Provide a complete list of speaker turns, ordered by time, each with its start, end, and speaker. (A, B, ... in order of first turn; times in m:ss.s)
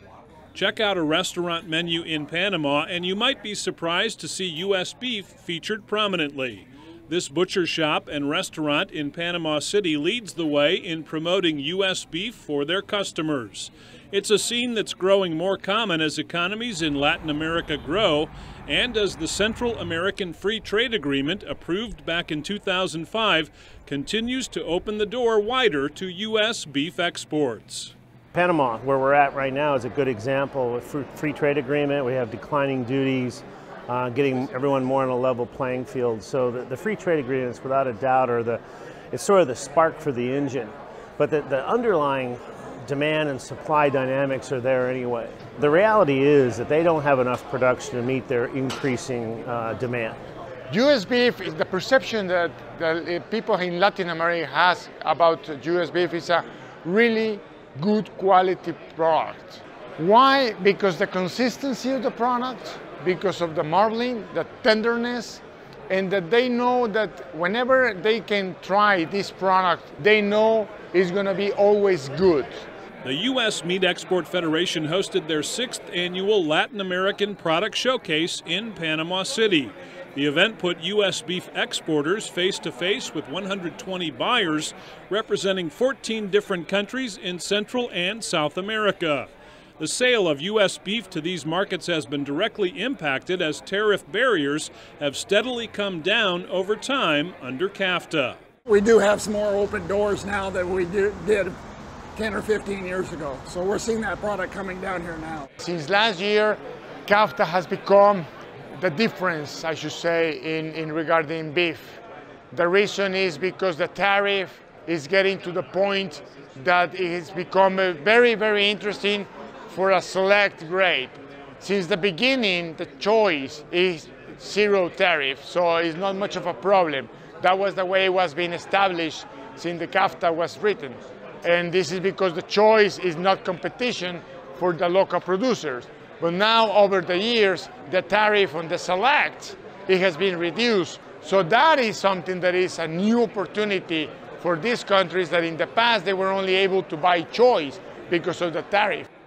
0:00.5-0:27.9 A
0:28.3-0:50.2 B
0:50.7-1:12.6 C
1:13.0-1:38.4 A
1:38.7-1:41.6 D
1:42.2-1:45.5 D
1:45.6-1:52.0 C
1:52.5-2:29.1 C